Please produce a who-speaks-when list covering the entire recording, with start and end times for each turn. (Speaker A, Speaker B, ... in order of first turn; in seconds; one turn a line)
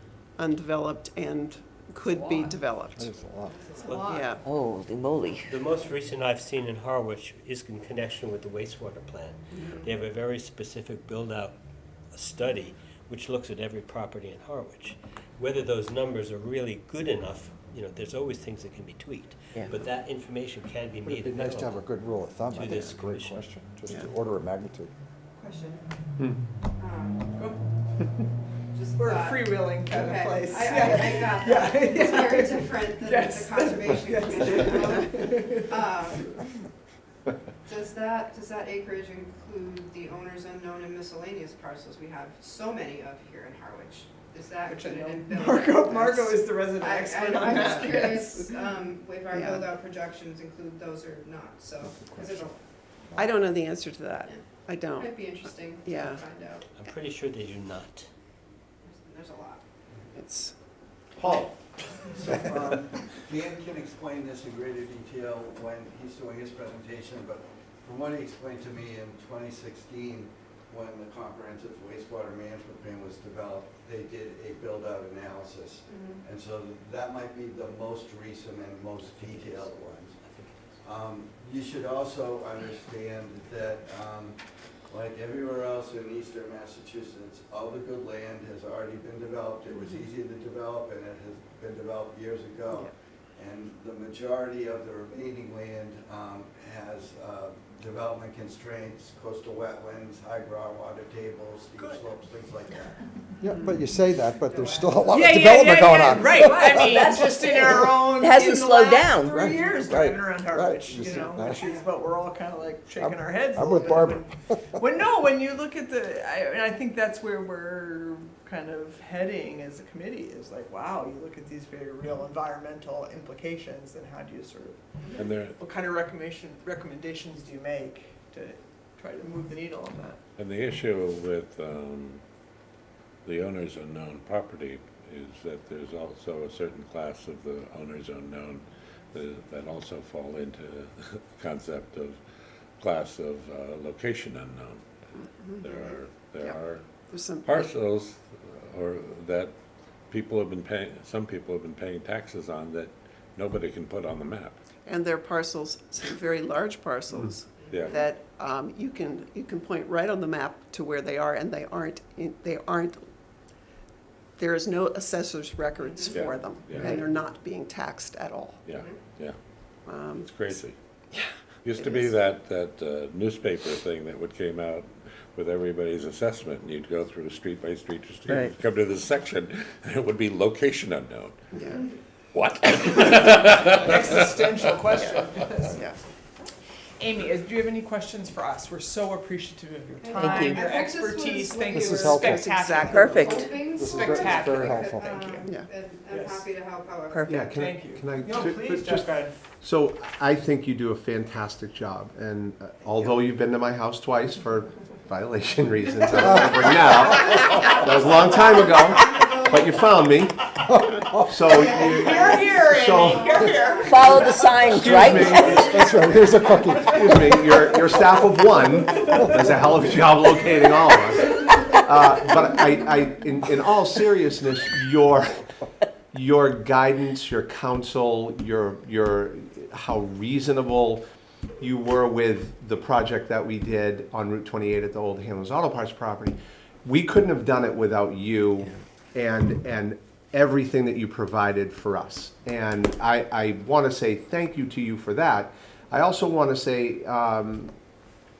Speaker A: 0.4-3.1
Speaker B: 3.0-3.7
Speaker C: 3.8-4.1
Speaker A: 4.1-4.5
Speaker D: 4.4-5.5
Speaker C: 5.5-11.6
Speaker C: 12.1-21.8
Speaker B: 21.1-24.9
Speaker C: 22.5-23.4
Speaker E: 25.4-25.8
Speaker E: 26.8-27.3
Speaker E: 28.7-36.3
Speaker F: 29.0-35.9
Speaker E: 37.6-52.6
Speaker F: 44.6-48.6
Speaker A: 49.3-49.7
Speaker B: 51.8-52.4
Speaker A: 53.1-56.2
Speaker E: 54.9-56.6
Speaker C: 56.7-58.1
Speaker E: 58.8-59.6
Speaker A: 60.1-60.5
Speaker G: 61.2-61.5
Speaker H: 62.1-80.2
Speaker E: 75.9-76.2
Speaker H: 80.8-84.4
Speaker H: 84.9-103.0
Speaker F: 101.8-102.1
Speaker B: 103.4-106.9
Speaker E: 104.4-105.3
Speaker F: 104.5-124.8
Speaker D: 106.9-109.4
Speaker B: 109.4-111.6
Speaker E: 111.1-111.9
Speaker B: 113.0-114.2
Speaker I: 125.1-125.6
Speaker F: 125.6-130.2
Speaker I: 130.4-132.2
Speaker I: 133.2-142.2
Speaker I: 142.8-144.8
Speaker A: 145.2-145.8
Speaker I: 145.6-146.8
Speaker A: 147.1-147.7
Speaker I: 147.4-149.5
Speaker I: 150.1-154.6
Speaker A: 154.8-163.0
Speaker I: 157.7-158.0
Speaker A: 164.4-168.6
Speaker I: 166.1-167.0
Speaker I: 168.7-169.3
Speaker A: 169.8-170.6
Speaker I: 170.2-170.7
Speaker A: 171.1-172.1
Speaker I: 171.6-181.4
Speaker D: 178.3-178.5
Speaker A: 181.5-181.8
Speaker I: 182.3-185.0
Speaker F: 183.7-185.8
Speaker A: 185.7-186.0
Speaker F: 187.0-195.5
Speaker E: 190.0-192.5
Speaker D: 190.2-190.6
Speaker B: 191.7-192.3
Speaker A: 192.3-193.0
Speaker D: 192.9-193.4
Speaker E: 193.1-197.7
Speaker B: 193.7-195.1
Speaker F: 196.1-196.4
Speaker D: 197.1-197.4
Speaker G: 197.3-210.5
Speaker F: 197.5-199.3
Speaker E: 206.6-209.8
Speaker B: 210.7-211.4
Speaker G: 211.2-213.3
Speaker E: 211.4-214.6
Speaker F: 211.5-214.6
Speaker D: 213.8-215.6
Speaker G: 214.6-215.7
Speaker F: 215.2-217.5
Speaker E: 215.4-215.9
Speaker B: 215.7-217.9
Speaker G: 216.6-225.5
Speaker G: 226.1-231.0
Speaker G: 231.6-247.7